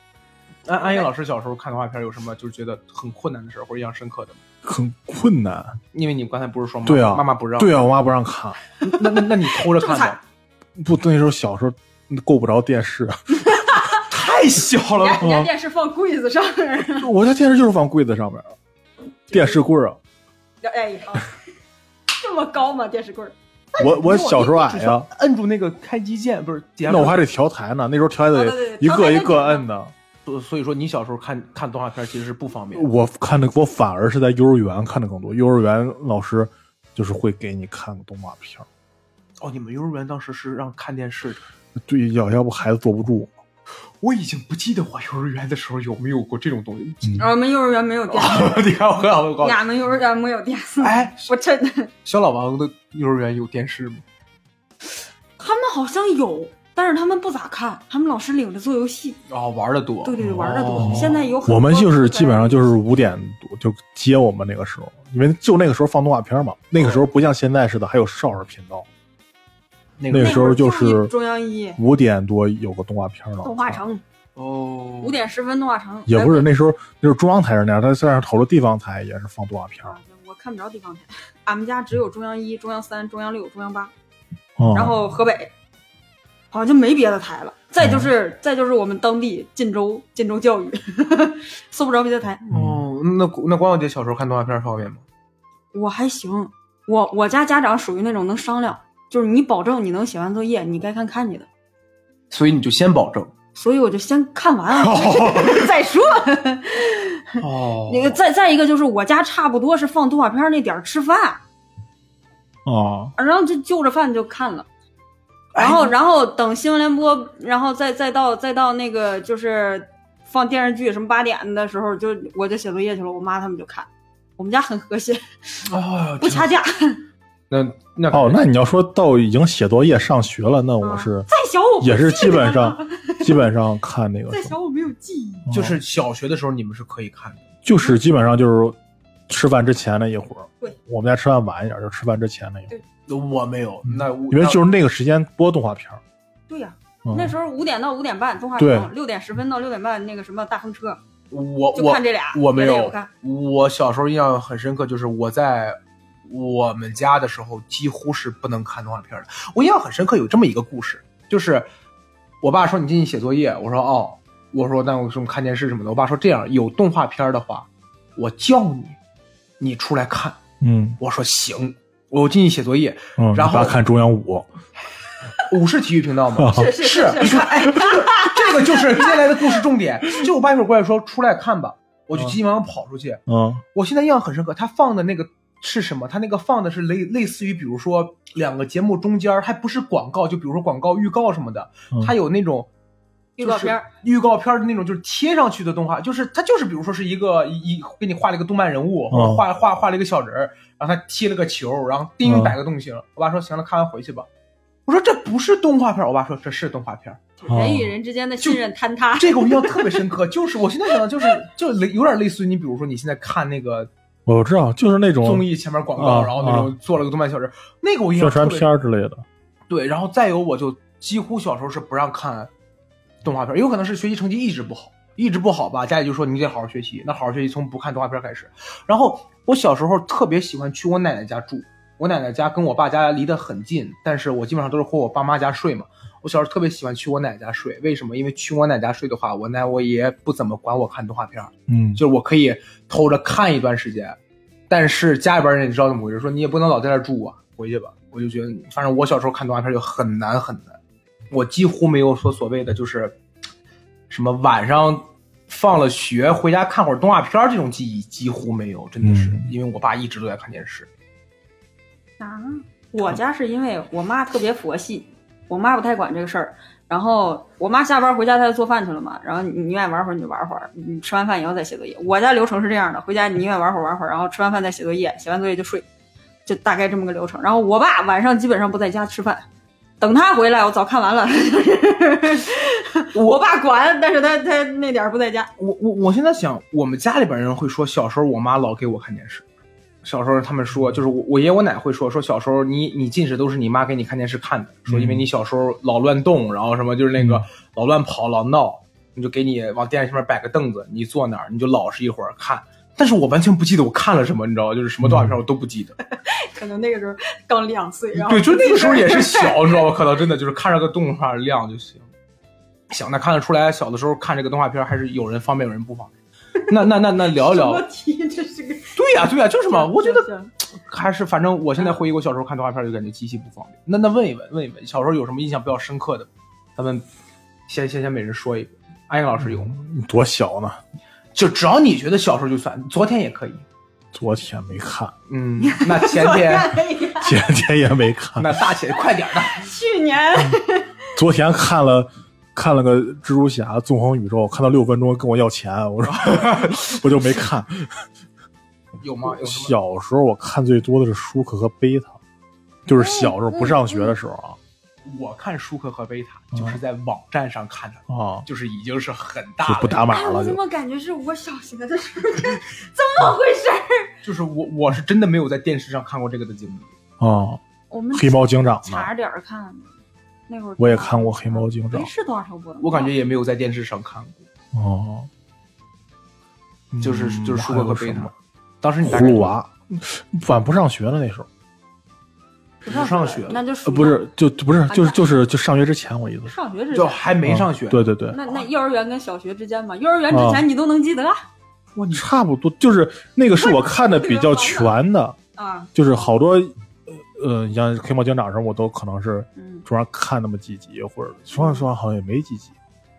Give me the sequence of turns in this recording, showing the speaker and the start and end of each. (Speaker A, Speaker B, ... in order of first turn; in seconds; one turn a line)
Speaker A: 0.7-4.4
Speaker B: 0.8-1.1
Speaker C: 4.6-5.8
Speaker A: 5.9-7.7
Speaker C: 6.8-8.6
Speaker A: 8.8-10.2
Speaker B: 9.6-10.2
Speaker C: 10.8-13.6
Speaker B: 13.4-13.9
Speaker A: 13.9-15.3
Speaker B: 15.0-17.1
Speaker C: 15.2-15.5
Speaker C: 17.0-18.5
Speaker B: 19.3-19.6
Speaker C: 19.3-20.0
Speaker B: 20.6-21.4
Speaker B: 22.1-23.3
Speaker A: 23.7-27.2
Speaker C: 23.8-25.1
Speaker C: 26.9-29.9
Speaker B: 28.3-29.7
Speaker A: 30.2-32.9
Speaker C: 32.7-38.6
Speaker A: 39.4-41.4
Speaker C: 41.8-43.3
Speaker A: 44.0-47.2
Speaker B: 47.2-48.7
Speaker A: 48.1-49.6
Speaker B: 49.4-51.9
Speaker A: 50.8-51.3
Speaker A: 52.0-54.0
Speaker B: 55.4-59.2
Speaker A: 59.3-61.2
Speaker B: 60.0-62.7
Speaker C: 60.2-68.9
Speaker A: 70.0-70.5
Speaker C: 70.1-71.1
Speaker B: 70.2-71.8
Speaker C: 71.8-73.8
Speaker B: 73.4-74.0
Speaker A: 74.3-75.2
Speaker B: 75.0-76.5
Speaker C: 76.1-80.0
Speaker B: 79.8-83.9
Speaker C: 84.6-85.0
Speaker B: 84.7-85.5
Speaker B: 86.5-92.4
Speaker C: 87.8-88.1
Speaker A: 92.4-95.0
Speaker C: 92.5-92.8
Speaker B: 95.7-101.5
Speaker A: 102.3-103.3
Speaker B: 103.5-111.4
Speaker A: 104.7-105.7
Speaker A: 107.4-108.2
Speaker C: 112.6-113.1
Speaker B: 113.2-114.7
Speaker A: 115.5-115.9
Speaker B: 115.6-125.7
Speaker A: 125.7-126.5
Speaker B: 126.2-127.0
Speaker A: 127.5-128.4
Speaker C: 128.1-131.3
Speaker B: 130.8-133.5
Speaker C: 131.8-134.5
Speaker B: 134.3-135.5
Speaker C: 135.4-135.8
Speaker A: 135.5-137.4
Speaker C: 137.6-138.8
Speaker C: 139.3-142.7
Speaker A: 143.1-144.6
Speaker C: 143.8-146.0
Speaker B: 146.5-151.0
Speaker C: 147.1-147.3
Speaker C: 148.6-148.9
Speaker A: 151.3-161.7
Speaker B: 151.7-153.1
Speaker A: 162.4-169.0
Speaker A: 169.6-170.4
Speaker C: 170.6-171.0
Speaker A: 171.0-173.8
Speaker C: 173.2-174.5
Speaker A: 175.4-183.2
Speaker C: 176.4-176.8
Speaker B: 176.5-179.6
Speaker C: 183.3-183.6
Speaker A: 183.7-192.7
Speaker B: 193.4-193.9
Speaker A: 193.4-204.3
Speaker C: 199.1-199.4
Speaker C: 202.2-202.5
Speaker A: 204.9-207.2
Speaker B: 207.4-210.1
Speaker C: 207.5-207.9
Speaker A: 209.2-213.9
Speaker C: 214.2-216.7
Speaker A: 215.2-218.7
Speaker C: 218.2-219.2
Speaker A: 219.7-222.5
Speaker A: 223.2-244.2
Speaker C: 241.7-242.0
Speaker A: 244.7-250.8
Speaker A: 251.3-253.2
Speaker A: 254.1-260.9
Speaker C: 259.0-259.5
Speaker B: 262.2-275.8
Speaker B: 276.4-279.4
Speaker B: 280.0-285.5
Speaker A: 283.1-283.4
Speaker A: 285.6-289.4
Speaker A: 290.0-305.9
Speaker C: 294.9-295.2
Speaker C: 305.0-305.4
Speaker B: 306.2-309.9
Speaker A: 308.1-312.1
Speaker A: 312.9-316.1
Speaker B: 316.6-320.5
Speaker A: 316.7-317.8
Speaker A: 318.9-327.1
Speaker A: 327.7-329.8
Speaker C: 329.4-330.8
Speaker A: 331.3-333.6
Speaker C: 334.1-335.1
Speaker A: 335.3-336.7
Speaker B: 335.6-337.5
Speaker C: 337.2-338.5
Speaker A: 338.4-339.7
Speaker B: 339.4-341.1
Speaker C: 341.1-348.0
Speaker A: 346.1-347.0
Speaker A: 349.0-349.8
Speaker C: 349.2-352.2
Speaker C: 352.9-354.6
Speaker B: 352.9-354.1
Speaker A: 355.0-360.1
Speaker C: 356.5-356.8
Speaker C: 358.1-358.4
Speaker C: 359.6-360.6
Speaker B: 360.1-364.1
Speaker A: 364.2-366.9
Speaker C: 367.2-367.6
Speaker B: 367.9-369.9
Speaker C: 368.1-369.1
Speaker B: 370.5-373.1
Speaker C: 370.8-372.1
Speaker A: 372.8-374.4
Speaker C: 374.7-375.3
Speaker C: 376.9-378.3
Speaker A: 377.0-379.5
Speaker C: 379.0-381.5
Speaker A: 382.8-383.6
Speaker B: 382.8-384.3
Speaker C: 383.8-386.6
Speaker B: 384.9-385.2
Speaker B: 386.5-387.2
Speaker A: 386.9-388.6
Speaker C: 387.4-388.4
Speaker B: 388.3-391.4
Speaker C: 390.3-390.6
Speaker A: 391.9-392.3
Speaker C: 392.1-395.4
Speaker B: 393.5-394.9
Speaker B: 395.6-395.9
Speaker C: 395.9-402.7
Speaker B: 399.6-399.9
Speaker B: 401.5-401.9